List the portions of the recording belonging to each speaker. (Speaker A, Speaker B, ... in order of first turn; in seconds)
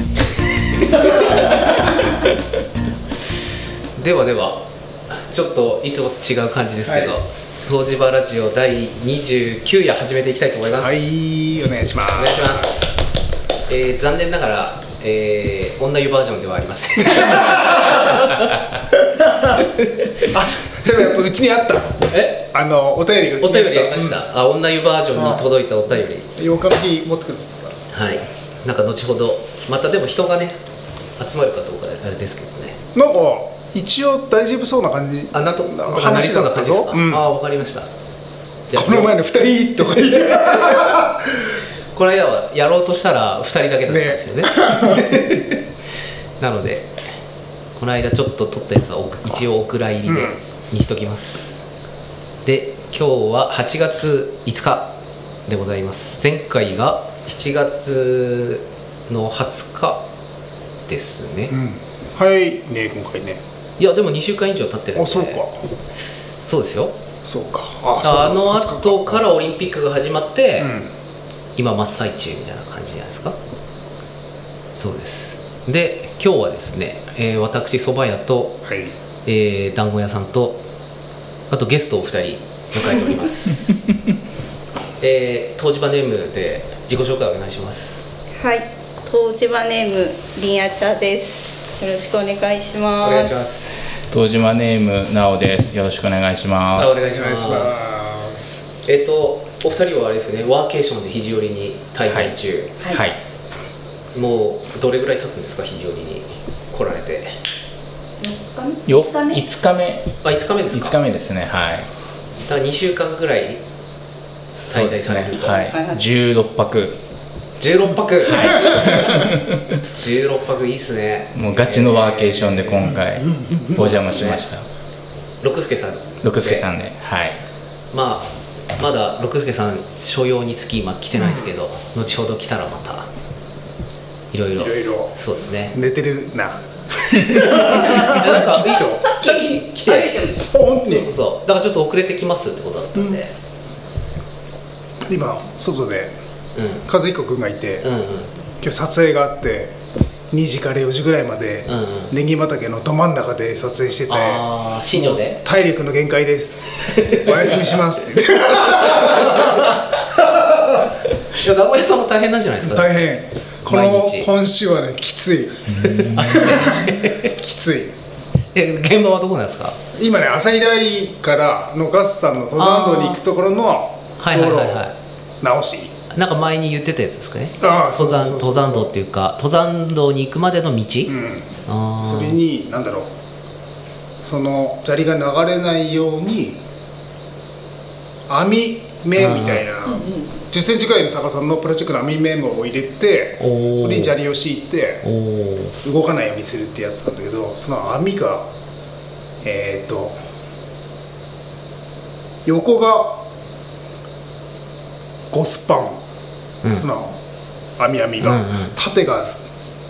Speaker A: 0.9-1.8, 4.0-11.1, 12.1-13.0, 13.7-18.7, 19.6-20.3, 22.1-22.5, 23.4-26.3, 27.9-30.6, 31.2-32.8, 35.3-37.9, 38.7-39.1, 41.9-45.6, 46.4-46.9, 47.8-51.5, 52.4-54.9, 55.5-60.0, 60.9-61.5, 63.8-65.4, 66.4-66.9, 68.0-70.7, 71.6-73.4, 74.8-78.6, 79.2-80.6, 81.5-83.7, 85.0-88.0, 93.0-93.8, 96.8-98.0, 98.8-102.8, 104.1-107.3, 110.2-111.0, 112.4-113.6, 114.7-115.7, 117.6-119.1, 119.9-123.0, 123.7-124.5, 125.4-126.7, 127.9-133.1, 134.3-135.8, 137.2-143.3, 146.6-146.9, 147.8-148.3, 151.7-152.1, 154.1-155.4, 156.9-157.6, 161.3-163.1, 163.7-164.3, 166.1-167.3, 168.5-169.8, 172.6-173.2, 174.2-174.9, 176.1-182.4, 189.2-189.7, 193.4-194.2, 195.0-195.8, 208.2-208.8
Speaker B: 0.9-1.9, 6.9-7.2, 10.8-12.9, 17.1-18.0, 19.2-19.5, 20.3-24.2, 25.1-25.5, 26.3-27.7, 32.9-37.2, 38.7-41.5, 43.9-45.1, 50.1-50.4, 61.5-63.4, 65.0-65.6, 67.3-69.2, 70.6-70.9, 78.7-78.9, 97.0-98.5, 122.9-124.0, 131.2-131.5, 134.6-135.1, 135.7-139.0, 140.5-141.1, 142.9-143.2, 145.1-146.1, 146.9-147.9, 148.6-149.7, 150.3-159.8, 162.6-167.9, 169.9-175.9, 177.6-178.9, 181.1-181.5, 182.0-183.1, 184.2-186.6, 188.3-195.1, 195.8-198.5, 199.4-200.2, 202.5-203.2, 205.3-206.0, 206.8-207.2, 207.8-209.5
Speaker C: 88.4-93.5, 108.2-109.4, 115.5-116.0, 138.8-140.4, 189.9-190.3
Speaker D: 94.1-97.0, 102.1-102.3, 102.9-103.2, 108.9-110.1, 110.7-111.9, 114.6-117.0, 118.2-119.6, 121.3-124.7, 126.2-127.4, 165.7-166.4